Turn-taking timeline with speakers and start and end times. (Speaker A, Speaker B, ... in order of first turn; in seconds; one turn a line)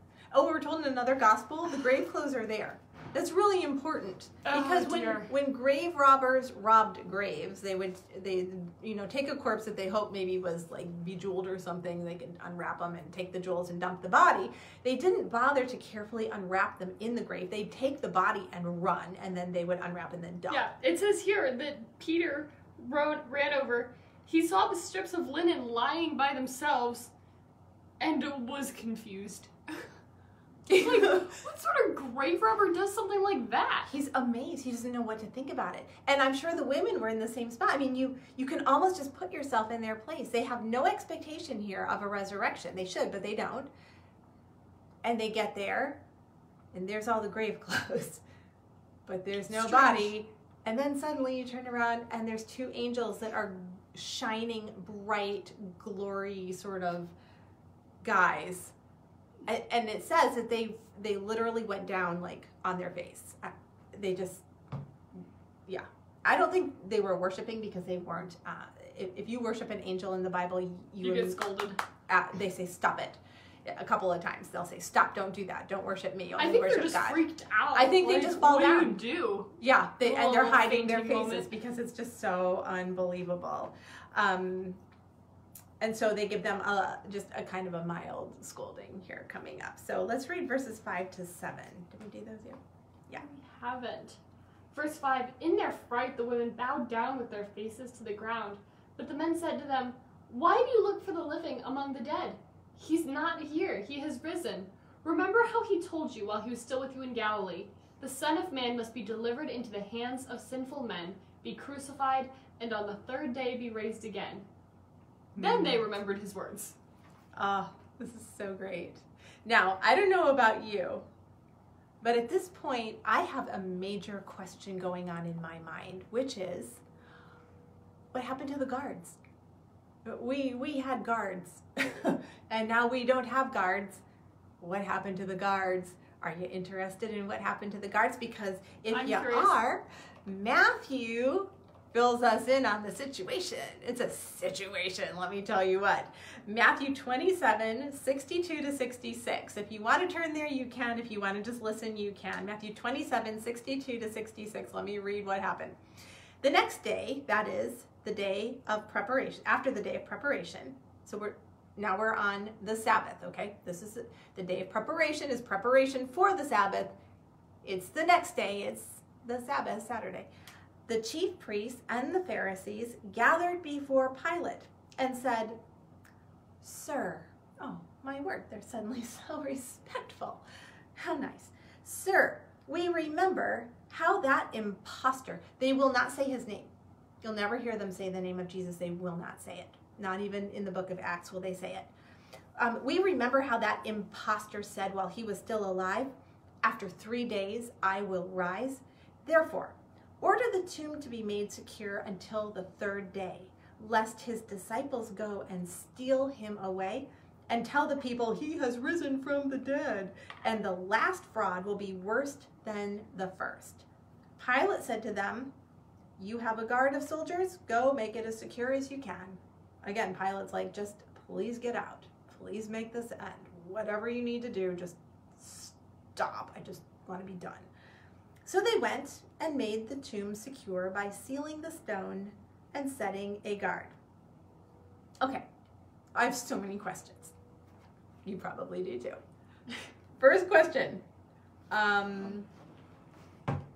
Speaker A: 0.3-20.7
Speaker B: 4.4-5.3
Speaker B: 20.5-27.1
Speaker B: 28.0-29.9
Speaker A: 30.7-31.3
Speaker B: 30.7-33.9
Speaker A: 33.9-43.7
Speaker A: 45.0-46.0
Speaker A: 46.7-48.2
Speaker A: 49.1-57.1
Speaker B: 49.5-50.1
Speaker A: 58.0-58.7
Speaker A: 59.5-64.4
Speaker A: 65.2-71.4
Speaker B: 71.0-71.8
Speaker A: 72.1-77.2
Speaker B: 76.4-81.5
Speaker A: 77.7-79.0
Speaker A: 79.6-84.8
Speaker A: 85.8-93.2
Speaker B: 93.2-94.2
Speaker B: 94.7-114.5
Speaker A: 115.4-115.8
Speaker B: 115.4-116.8
Speaker A: 117.3-121.0
Speaker A: 122.0-126.8
Speaker A: 128.1-129.2
Speaker A: 130.1-134.0
Speaker A: 134.6-155.8
Speaker B: 138.9-139.6
Speaker A: 156.4-166.9
Speaker A: 167.6-170.3
Speaker A: 170.9-175.6
Speaker A: 176.6-180.4
Speaker A: 180.9-191.9
Speaker A: 192.6-196.1
Speaker A: 196.6-213.9
Speaker A: 214.4-215.5
Speaker A: 216.2-227.7
Speaker A: 228.4-233.9
Speaker A: 235.2-235.4
Speaker A: 236.1-237.3
Speaker A: 238.2-239.2
Speaker A: 240.2-241.0
Speaker A: 241.7-242.5